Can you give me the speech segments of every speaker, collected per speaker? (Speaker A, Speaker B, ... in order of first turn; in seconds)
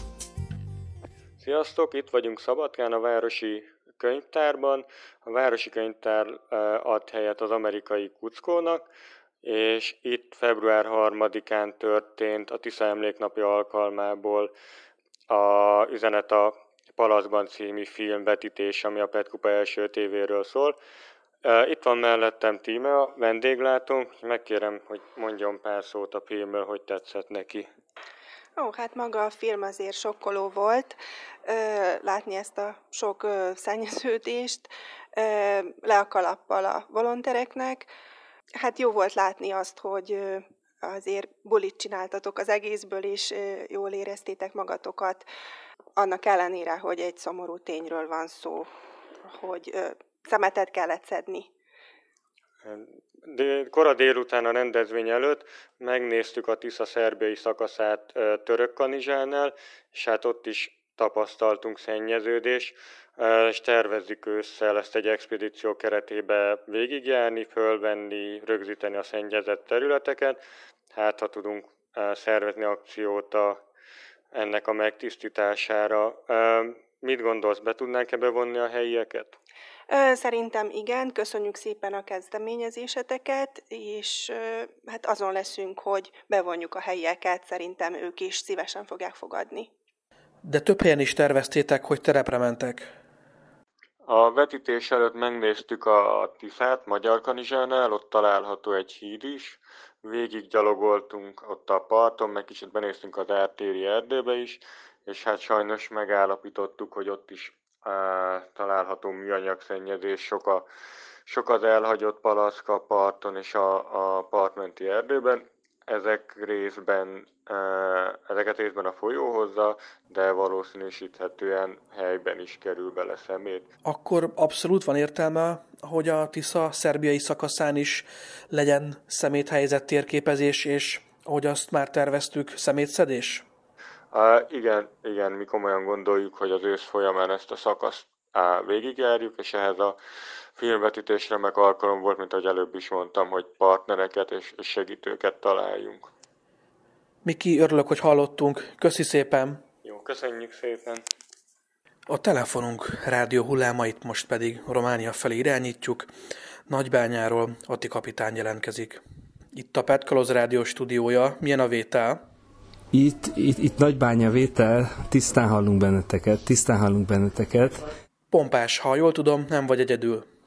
Speaker A: 1.4-8.8, 9.4-14.5, 15.3-20.7, 21.4-27.7, 52.6-70.4, 70.9-73.6, 74.3-79.3, 94.0-110.6, 111.3-123.6, 134.1-139.9, 140.6-146.1, 149.8-151.0
Speaker B: 28.6-37.9, 38.6-45.3, 46.0-48.7, 49.3-51.5, 79.9-89.7
Speaker C: 90.4-92.9, 123.8-133.4, 147.2-149.6, 152.1-156.1, 156.7-159.0, 159.5-162.2, 168.3-170.2
Speaker D: 162.9-167.8